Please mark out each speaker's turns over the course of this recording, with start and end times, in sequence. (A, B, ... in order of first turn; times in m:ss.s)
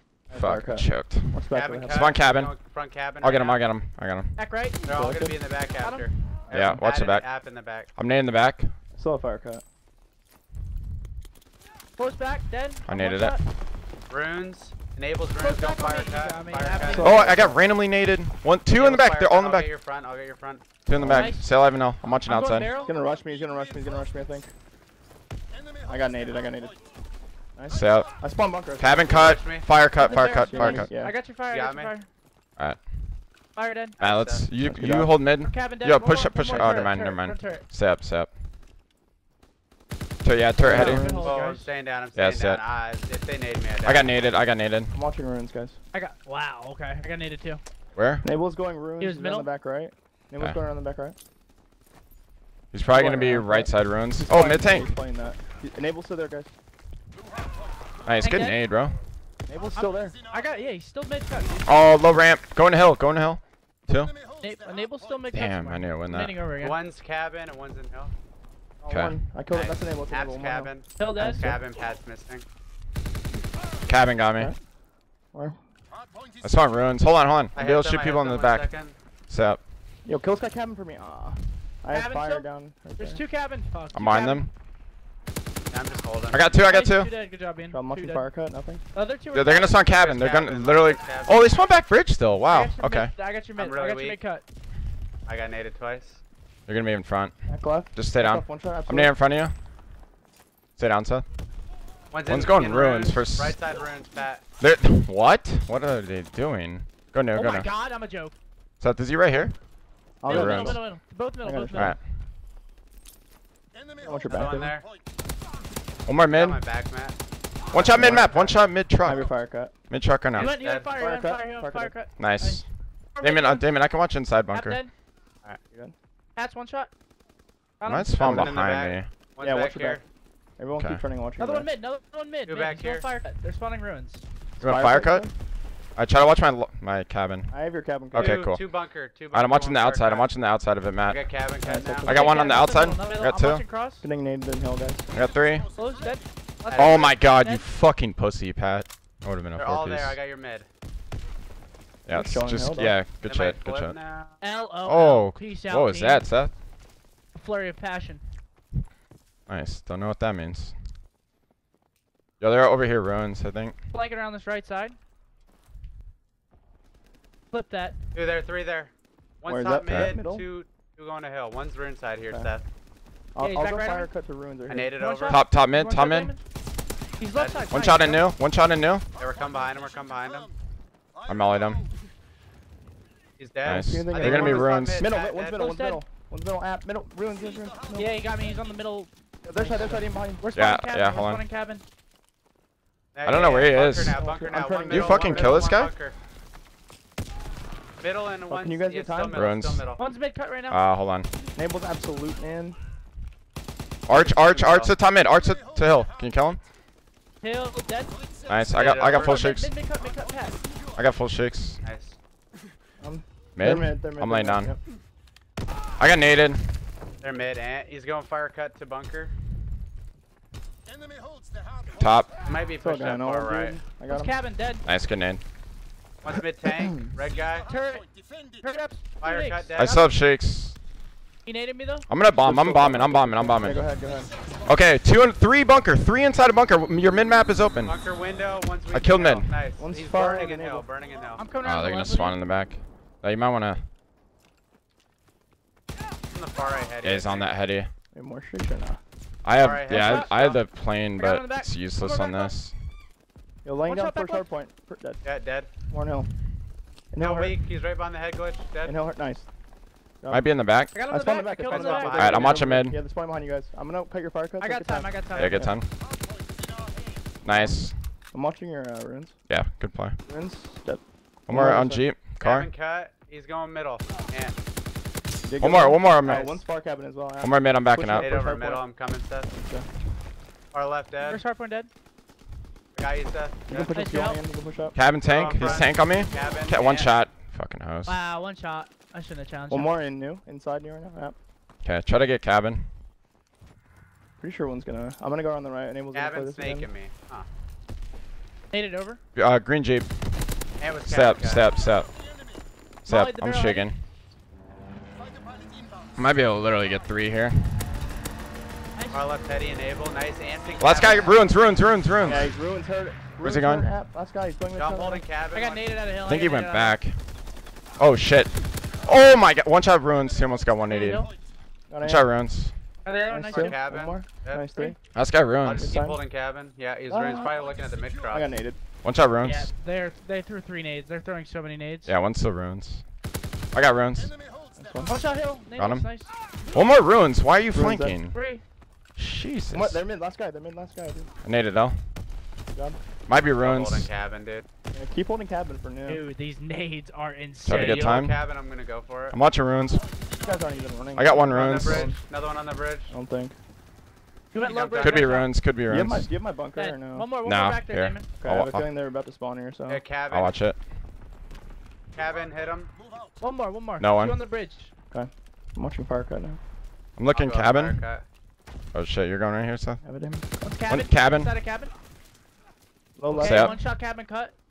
0:00.3-0:02.0 A
0:00.3-0:02.6 B
0:01.5-0:03.6 C
0:03.2-0:04.4 B
0:04.4-0:04.8 D
0:04.9-0:07.9 C
0:04.9-0:05.4 A
0:05.8-0:06.1 D
0:06.5-0:07.3 B
0:06.5-0:06.8 A
0:08.0-0:08.8 B
0:09.0-0:09.6 A
0:12.0-0:13.4 D
0:12.8-0:13.4 B
0:14.1-0:17.4 C
0:15.4-0:17.4 D
0:17.0-0:17.6 A
0:17.0-0:19.7 B
0:18.7-0:20.7 C
0:20.8-0:22.7 B
0:21.0-0:21.4 A
0:21.0-0:21.5 D
0:22.3-0:22.9 D
0:22.8-0:24.5 A
0:25.8-0:26.8 A
0:27.6-0:29.4 A
0:27.7-0:30.9 B
0:29.1-0:29.7 C
0:30.0-0:32.1 D
0:30.0-0:31.2 A
0:31.5-0:31.9 C
0:32.6-0:33.2 B
0:33.6-0:34.0 D
0:34.0-0:34.5 C
0:34.0-0:38.3 B
0:34.6-0:35.2 A
0:35.4-0:37.7 D
0:36.5-0:37.0 C
0:40.2-0:41.1 B
0:40.6-0:41.3 A
0:40.7-0:41.7 D
0:41.2-0:44.2 C
0:42.2-0:42.6 B
0:43.8-0:44.9 B
0:44.9-0:45.8 A
0:45.9-0:47.6 D
0:48.0-0:48.2 B
0:48.2-0:51.2 A
0:49.0-0:49.5 D
0:52.7-0:54.9 B
0:52.9-0:56.5 A
0:58.0-0:59.0 B
0:58.2-0:58.6 D
0:59.5-1:00.2 A
0:59.7-1:01.7 D
1:01.6-1:04.1 B
1:04.4-1:06.8 D
1:05.3-1:06.4 B
1:06.6-1:08.1 C
1:08.8-1:11.6 A
1:08.9-1:09.2 B
1:09.5-1:12.4 C
1:11.0-1:11.6 D
1:13.9-1:14.5 B
1:15.3-1:15.6 A
1:16.4-1:18.8 B
1:17.5-1:19.0 C
1:19.3-1:19.6 B
1:20.0-1:23.2 A
1:21.9-1:24.5 D
1:23.9-1:24.5 B
1:25.7-1:26.5 C
1:26.3-1:27.1 B
1:26.6-1:28.3 D
1:27.7-1:28.8 A
1:28.9-1:29.7 D
1:29.3-1:33.1 B
1:29.8-1:31.6 C
1:32.5-1:34.4 D
1:33.6-1:34.2 C
1:35.3-1:36.2 C
1:36.7-1:39.6 B
1:37.5-1:39.2 A
1:40.8-1:41.3 B
1:42.1-1:44.4 C
1:42.3-1:43.6 B
1:44.6-1:47.7 B
1:47.3-1:48.4 D
1:48.8-1:49.6 B
1:50.2-1:50.8 A
1:50.3-1:52.0 D
1:50.3-1:50.8 B
1:51.4-1:52.0 A
1:51.8-1:52.0 B
1:54.0-1:54.8 A
1:54.3-1:54.9 C
1:56.1-1:56.6 B
1:56.3-1:57.2 C
1:57.7-1:59.3 B
1:57.7-1:58.6 C
1:58.0-1:58.4 A
1:59.0-1:59.7 A
1:59.9-2:00.6 B
2:00.4-2:01.0 C
2:00.4-2:03.7 D
2:01.0-2:02.0 A
2:02.2-2:02.7 B
2:03.2-2:04.8 B
2:04.5-2:04.9 D
2:06.4-2:06.9 D
2:07.8-2:08.5 D
2:07.9-2:09.1 B
2:08.2-2:10.0 C
2:09.4-2:10.0 A
2:10.6-2:11.7 A
2:10.8-2:11.0 B
2:11.4-2:14.2 D
2:12.5-2:13.1 C
2:14.6-2:15.3 B
2:14.6-2:15.3 A
2:16.0-2:17.6 B
2:17.5-2:18.4 A
2:18.1-2:18.7 B
2:18.2-2:20.3 C
2:19.3-2:21.5 B
2:21.0-2:22.2 C
2:21.6-2:22.6 A
2:22.0-2:23.7 B
2:22.1-2:24.1 D
2:24.0-2:25.1 A
2:25.1-2:25.7 B
2:25.7-2:27.6 D
2:26.7-2:27.2 C
2:26.8-2:30.2 B
2:29.6-2:30.7 C
2:32.1-2:34.0 B
2:32.1-2:33.0 A
2:33.2-2:34.4 C
2:34.4-2:36.3 D
2:34.8-2:36.5 B
2:37.3-2:38.2 D
2:39.5-2:40.8 B
2:42.4-2:43.8 B
2:43.9-2:45.0 D
2:47.5-2:48.0 D
2:48.1-2:52.7 C
2:49.5-2:50.5 A
2:49.9-2:50.1 B
2:53.4-2:54.9 A
2:53.4-2:54.1 D
2:54.7-2:55.4 C
2:55.0-2:56.4 D
2:55.3-2:56.3 B
2:57.2-2:58.3 D
2:57.3-2:57.9 C
2:57.7-2:59.1 B
2:59.2-3:00.5 C
3:01.2-3:01.9 B
3:03.4-3:05.6 C
3:03.6-3:05.0 B
3:03.7-3:08.1 A
3:05.6-3:06.0 D
3:07.9-3:11.8 D
3:09.4-3:10.4 A
3:10.6-3:11.4 B
3:13.2-3:16.2 C
3:13.2-3:14.2 B
3:14.1-3:15.7 A
3:14.9-3:15.9 B
3:18.0-3:20.0 C
3:18.5-3:19.5 A
3:19.3-3:19.8 B
3:20.0-3:20.8 D
3:20.7-3:21.3 B
3:21.6-3:22.8 A
3:24.1-3:26.6 B
3:24.1-3:25.0 C
3:27.4-3:28.2 D
3:28.5-3:29.7 B
3:28.7-3:29.5 C
3:29.1-3:30.6 D
3:31.0-3:31.8 B
3:31.8-3:32.2 C
3:33.0-3:34.8 A
3:33.6-3:34.8 B
3:36.0-3:36.7 B
3:37.2-3:39.3 C
3:42.0-3:42.3 B
3:42.4-3:43.8 C
3:42.8-3:44.4 A
3:44.1-3:44.8 D
3:44.8-3:45.4 B
3:46.2-3:47.7 C
3:46.8-3:47.1 A
3:47.7-3:49.7 D
3:49.2-3:50.1 C
3:49.8-3:50.8 B
3:51.4-3:52.1 D
3:52.1-3:53.8 B
3:52.3-3:54.3 A
3:54.6-3:58.0 B
3:57.8-4:01.4 C
3:58.9-3:59.6 B
3:59.8-4:00.9 A
4:01.4-4:02.4 D
4:01.6-4:03.9 B
4:06.3-4:07.5 C
4:07.0-4:07.9 B
4:08.1-4:09.0 A
4:09.4-4:12.8 B
4:09.6-4:10.6 C
4:09.9-4:12.5 D
4:13.6-4:15.2 A
4:13.9-4:14.5 D
4:15.2-4:15.7 C
4:15.9-4:16.4 A
4:17.1-4:17.6 A
4:17.2-4:19.0 C
4:18.8-4:19.5 A
4:20.2-4:25.8 A
4:20.3-4:21.0 B
4:20.9-4:22.6 D
4:21.7-4:22.5 C
4:22.1-4:23.0 B
4:24.6-4:25.7 D
4:25.3-4:25.9 B
4:27.4-4:28.0 B
4:27.5-4:29.4 A
4:29.5-4:30.2 B
4:30.3-4:32.1 A
4:31.5-4:32.7 B
4:32.4-4:34.6 C
4:35.4-4:38.8 A
4:35.6-4:36.6 B
4:36.3-4:36.5 C
4:37.4-4:38.3 B
4:38.2-4:39.5 C
4:39.5-4:39.9 A
4:40.7-4:41.4 C
4:41.2-4:41.9 D
4:43.0-4:43.9 C
4:43.7-4:45.0 A
4:43.9-4:44.4 D
4:45.0-4:48.2 B
4:45.2-4:47.2 C
4:48.1-4:49.9 D
4:49.7-4:51.4 A
4:51.8-4:52.9 B
4:54.4-4:56.9 A
4:56.1-4:57.5 C
4:58.7-4:59.2 D
4:59.4-5:00.3 B
5:00.8-5:01.7 C
5:01.0-5:02.2 B
5:03.0-5:04.0 B
5:03.1-5:03.9 D
5:06.2-5:07.9 B
5:09.0-5:09.3 D
5:09.1-5:11.6 C
5:10.8-5:12.5 B
5:12.2-5:12.5 C
5:12.2-5:15.2 A
5:13.4-5:13.9 B
5:14.8-5:15.9 C
5:15.5-5:17.0 D
5:16.2-5:17.2 B
5:18.0-5:21.3 B
5:20.9-5:21.3 D
5:21.9-5:22.3 A
5:22.0-5:22.7 B
5:23.0-5:23.8 D
5:23.3-5:25.0 A
5:23.5-5:24.9 C
5:25.1-5:26.0 B
5:25.6-5:28.6 C
5:25.8-5:26.2 A
5:27.1-5:27.6 A
5:28.3-5:28.8 A
5:29.0-5:29.7 B
5:29.4-5:32.1 D
5:32.1-5:33.0 B
5:33.7-5:34.3 B
5:34.8-5:35.2 A
5:35.0-5:36.3 D
5:35.8-5:36.1 B
5:36.7-5:38.4 B
5:37.7-5:38.2 A
5:38.3-5:38.6 D
5:39.2-5:40.0 B
5:39.7-5:41.3 A
5:41.4-5:42.1 B
5:43.3-5:44.1 B
5:43.6-5:44.6 C
5:44.9-5:46.2 A
5:46.0-5:48.0 D
5:47.6-5:48.4 B
5:47.7-5:49.4 C
5:49.3-5:50.1 B
5:50.4-5:52.2 A
5:51.2-5:52.1 B
5:51.5-5:53.1 C
5:53.1-5:53.6 A
5:54.5-5:55.5 D
5:54.6-5:55.4 C
5:55.0-5:56.3 B
5:55.9-5:57.3 A
5:56.8-5:58.3 D
5:57.4-5:58.9 B
5:58.4-6:00.0 A
5:59.9-6:00.6 C
6:00.3-6:00.8 B
6:02.1-6:02.9 C
6:03.4-6:04.9 D
6:04.0-6:04.4 B
6:05.1-6:06.6 A
6:07.2-6:08.0 B
6:07.3-6:08.2 C
6:08.9-6:10.0 B
6:10.0-6:10.8 A
6:10.6-6:11.9 D
6:10.9-6:11.6 B
6:13.2-6:13.7 A
6:13.3-6:14.5 D
6:13.4-6:13.8 B